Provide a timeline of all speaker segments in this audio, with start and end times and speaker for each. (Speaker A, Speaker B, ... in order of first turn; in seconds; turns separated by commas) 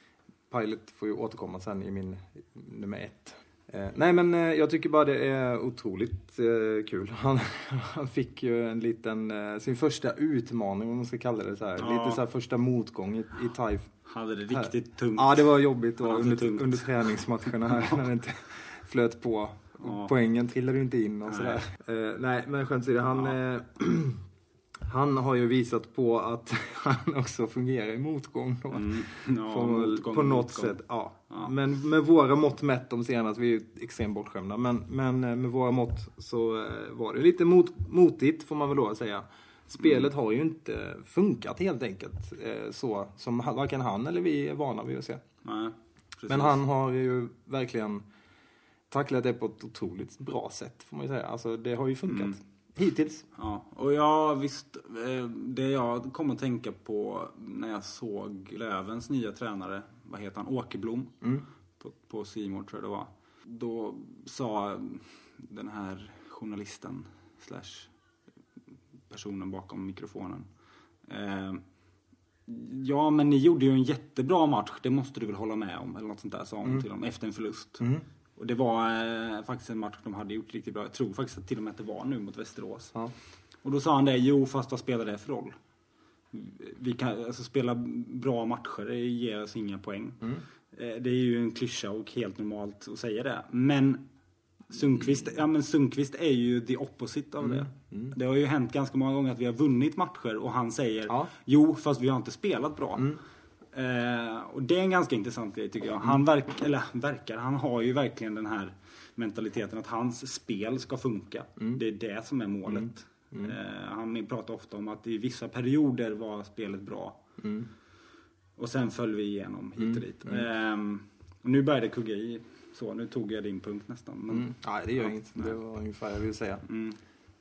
Speaker A: 0.5-13.9, Speaker B: 11.8-12.2, Speaker B: 14.1-15.5, Speaker A: 14.5-24.2, Speaker B: 16.0-18.0, Speaker B: 19.8-20.1, Speaker B: 21.3-21.6, Speaker A: 24.8-45.2, Speaker B: 28.7-30.8, Speaker B: 45.4-46.6, Speaker A: 46.3-48.0, Speaker A: 48.9-53.2, Speaker B: 52.1-52.4, Speaker B: 53.4-61.2, Speaker B: 61.8-67.9, Speaker B: 69.1-70.5, Speaker B: 71.1-71.6, Speaker B: 72.5-82.9, Speaker A: 77.8-78.0, Speaker B: 83.6-85.5, Speaker B: 86.3-94.0, Speaker B: 94.7-103.2, Speaker A: 97.4-98.1, Speaker B: 103.7-117.2, Speaker A: 112.7-113.5, Speaker A: 117.4-117.7, Speaker B: 118.6-125.5, Speaker A: 119.8-120.4, Speaker A: 124.3-126.6, Speaker B: 126.7-127.0